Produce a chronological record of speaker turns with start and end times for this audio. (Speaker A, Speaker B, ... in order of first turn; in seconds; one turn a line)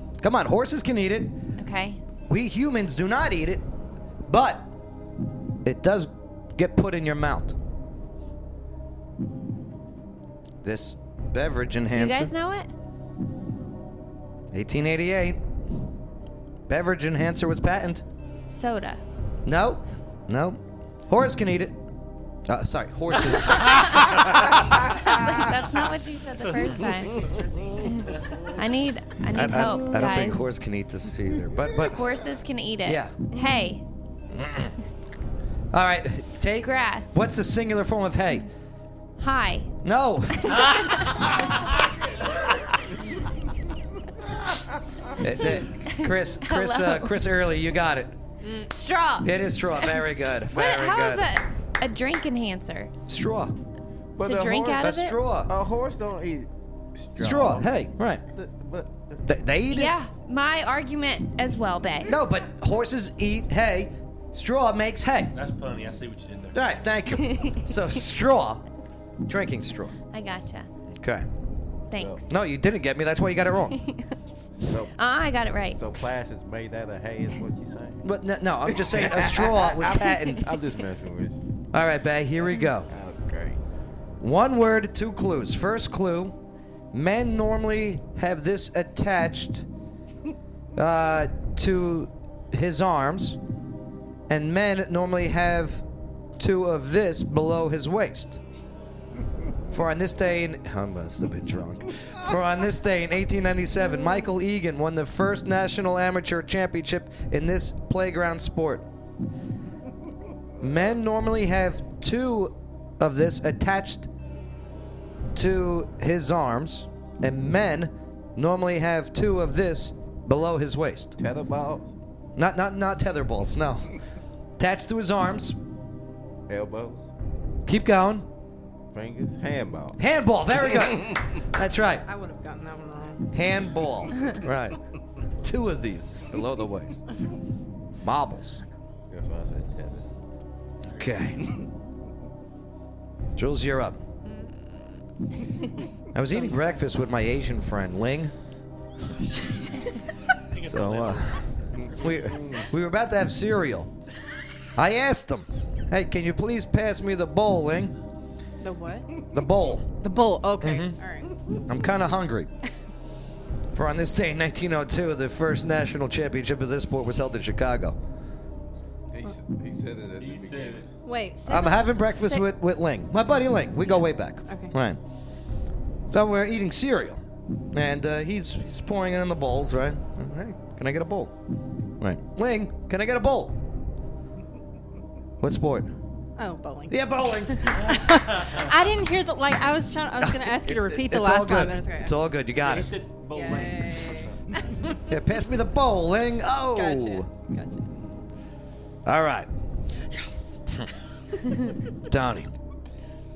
Speaker A: 0.2-1.4
Speaker B: 1.6-2.0
Speaker A: 2.3-3.6
Speaker A: 4.2-4.7
Speaker A: 5.6-7.5
Speaker A: 10.6-12.3
Speaker B: 11.9-12.7
Speaker A: 14.5-15.4
Speaker A: 16.7-18.0
Speaker B: 18.5-19.0
Speaker A: 19.4-21.8
Speaker A: 22.5-24.6
Speaker B: 25.1-30.5
Speaker A: 29.3-32.0
Speaker B: 31.8-33.8
Speaker A: 32.8-33.1
Speaker A: 34.3-34.7
Speaker A: 35.7-38.5
Speaker B: 36.6-37.2
Speaker B: 39.2-39.7
Speaker A: 39.8-41.6
Speaker B: 40.5-41.0
Speaker C: 44.4-45.1
Speaker A: 45.2-48.2
Speaker B: 45.9-47.1
Speaker D: 48.4-48.7
Speaker B: 48.6-49.3
Speaker A: 49.2-51.2
Speaker B: 50.5-52.9
Speaker A: 53.1-53.5
Speaker C: 54.1-59.2
Speaker B: 54.2-55.2
Speaker A: 54.8-55.5
Speaker A: 57.2-58.2
Speaker A: 59.2-59.9
Speaker B: 59.7-62.1
Speaker A: 62.0-65.3
Speaker E: 65.3-66.6
Speaker A: 66.5-68.6
Speaker B: 67.2-67.6
Speaker A: 69.3-69.9
Speaker B: 70.1-70.7
Speaker A: 71.0-71.2
Speaker C: 71.9-72.2
Speaker B: 71.9-72.3
Speaker A: 72.3-73.8
Speaker B: 73.8-75.8
Speaker C: 74.6-75.0
Speaker C: 75.7-78.0
Speaker A: 78.0-80.5
Speaker C: 78.7-81.4
Speaker A: 81.7-82.9
Speaker C: 82.9-83.6
Speaker A: 84.2-86.3
Speaker A: 86.9-89.7
Speaker A: 90.8-93.4
Speaker A: 94.3-95.8
Speaker A: 96.4-98.4
Speaker A: 99.7-108.9
Speaker A: 110.6-114.1
Speaker A: 115.3-121.1
Speaker C: 121.2-121.9
Speaker A: 122.3-123.9
Speaker A: 124.6-125.6
Speaker C: 126.5-127.1
Speaker A: 127.7-128.3
Speaker C: 128.9-130.0
Speaker A: 130.0-132.0
Speaker D: 132.0-133.3
Speaker A: 133.3-134.8
Speaker A: 135.4-137.0
Speaker A: 138.0-138.6
Speaker C: 139.1-140.1
Speaker A: 140.9-141.4
Speaker A: 143.3-144.0
Speaker D: 144.2-144.8
Speaker A: 146.1-148.3
Speaker D: 146.3-146.8
Speaker E: 150.3-152.4
Speaker A: 150.7-153.9
Speaker A: 154.8-157.9
Speaker D: 158.6-159.1
Speaker A: 159.3-159.9
Speaker D: 160.0-161.3
Speaker A: 160.6-161.0
Speaker A: 161.7-162.5
Speaker A: 163.7-168.0
Speaker C: 169.1-170.9
Speaker E: 170.2-170.9
Speaker D: 171.0-172.5
Speaker A: 171.5-175.0
Speaker D: 173.8-174.7
Speaker A: 176.1-181.3
Speaker A: 182.0-183.6
Speaker A: 185.4-185.9
Speaker D: 186.3-192.7
Speaker A: 186.9-187.7
Speaker E: 187.7-188.8
Speaker A: 190.2-192.9
Speaker E: 192.6-194.8
Speaker D: 193.3-195.0
Speaker A: 195.1-197.3
Speaker D: 196.6-197.9
Speaker A: 199.0-199.5
Speaker D: 200.1-200.4
Speaker A: 202.1-202.5